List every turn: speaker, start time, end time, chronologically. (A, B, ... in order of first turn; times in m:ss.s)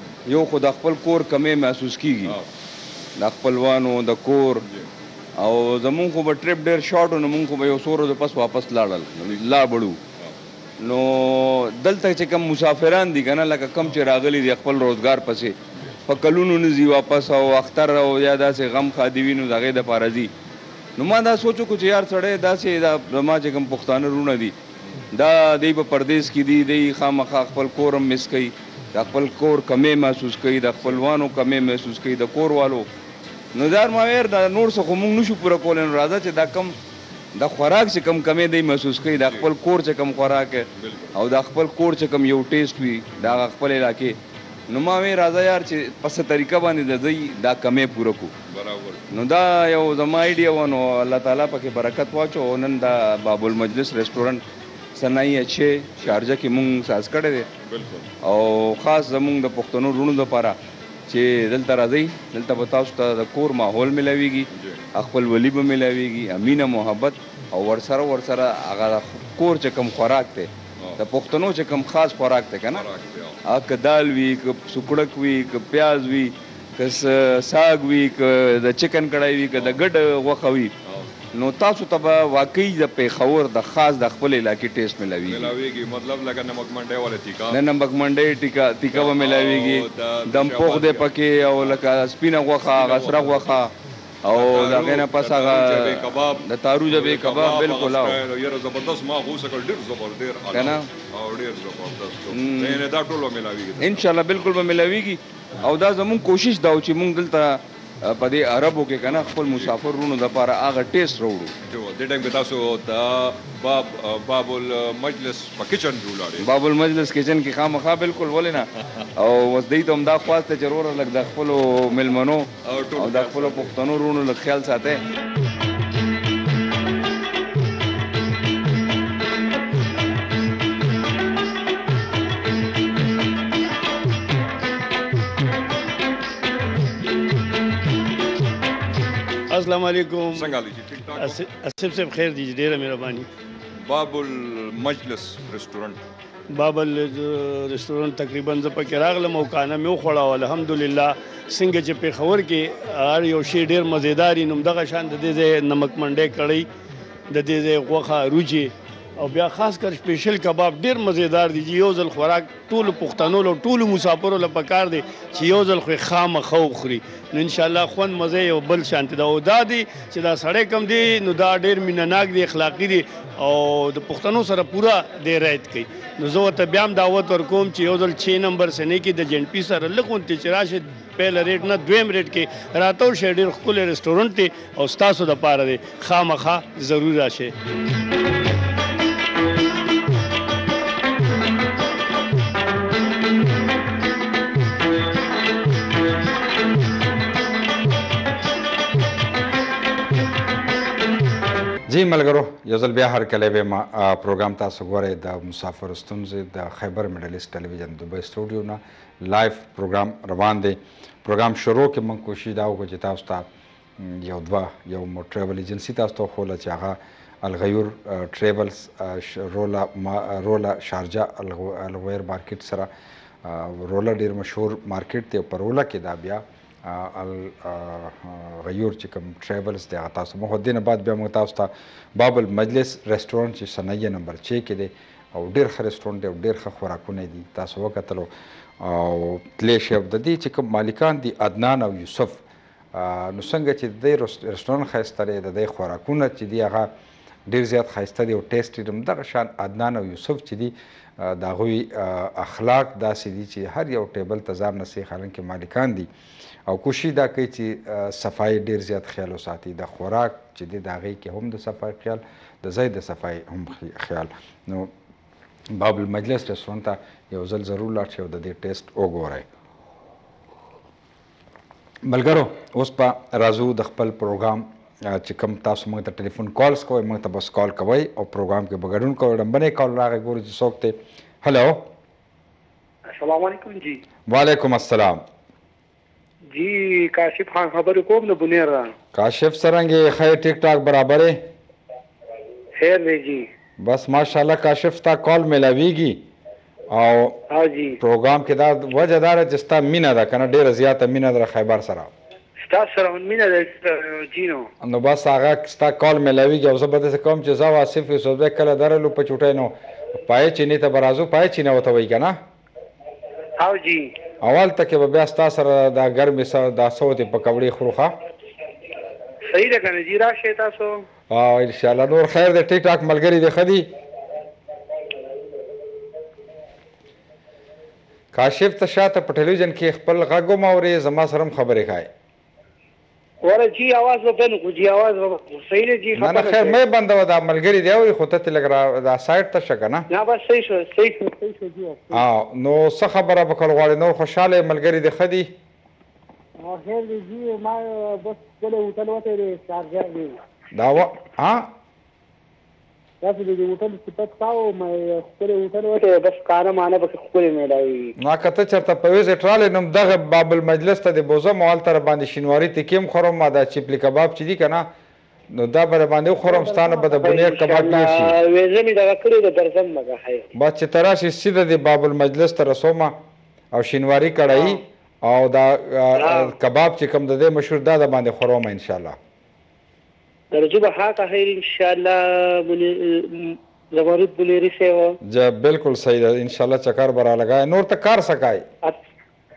0:00.3-0:02.4 A
0:03.2-0:04.6 A
0:05.4-0:10.0 A
0:10.8-0:15.5 A
0:16.1-0:20.3 A
0:21.0-0:24.5 A
0:25.1-0:32.9 A
0:33.5-0:36.7 A
0:37.4-0:44.2 A
0:39.2-0:39.5 B
0:40.8-0:41.1 B
0:44.7-0:48.3 A
0:48.5-0:49.0 B
0:49.1-0:54.4 A
0:55.0-0:57.5 A
0:57.6-0:58.1 B
0:58.2-1:00.6 A
1:01.1-1:12.8 A
1:04.5-1:04.8 B
1:12.7-1:13.4 B
1:13.4-1:20.7 A
1:20.8-1:21.1 B
1:21.3-1:25.5 A
1:25.2-1:27.6 B
1:27.5-1:33.7 A
1:28.9-1:31.8 B
1:32.6-1:33.6 B
1:34.2-1:38.2 A
1:34.3-1:44.0 B
1:40.5-1:40.9 A
1:42.3-1:42.8 A
1:43.8-1:51.5 A
1:49.0-1:49.7 B
1:51.6-1:56.4 B
1:56.4-2:05.0 A
2:02.6-2:03.7 B
2:19.5-2:20.5 C
2:20.4-2:21.4 B
2:21.2-2:23.3 C
2:23.8-2:26.0 B
2:26.5-2:36.6 C
2:37.3-3:07.5 C
3:21.9-3:33.4 D
3:34.0-3:42.9 D
3:43.4-3:58.3 D
3:58.8-4:02.4 D
4:02.9-4:06.9 D
4:07.5-4:16.1 D
4:16.7-4:24.9 D
4:25.7-4:29.4 D
4:32.0-4:41.9 D
4:43.1-4:44.0 E
4:44.3-4:45.2 D
4:46.5-4:48.9 E
4:49.1-4:51.4 D
4:52.8-4:53.4 E
4:53.8-4:56.2 D
4:56.9-4:57.4 D
4:57.5-4:58.0 E
4:58.0-5:02.1 D
5:02.7-5:04.7 E
5:04.8-5:09.7 D
5:10.2-5:12.4 D
5:13.6-5:14.1 E
5:14.4-5:18.1 D
5:19.5-5:21.0 E
5:21.3-5:23.9 D
5:28.3-5:32.1 D
5:33.4-5:36.8 E
5:36.1-5:40.0 D
5:40.1-5:42.2 E
5:42.1-5:45.5 D
5:46.6-5:50.4 E
5:50.7-5:51.7 D
5:53.2-5:58.1 E
5:58.2-6:04.9 D
6:05.5-6:08.3 D
6:06.5-6:10.4 E
6:10.5-6:13.1 D
6:13.7-6:19.2 D
6:14.5-6:14.8 E
6:16.2-6:16.5 E
6:20.5-6:25.2 E
6:25.2-6:28.6 D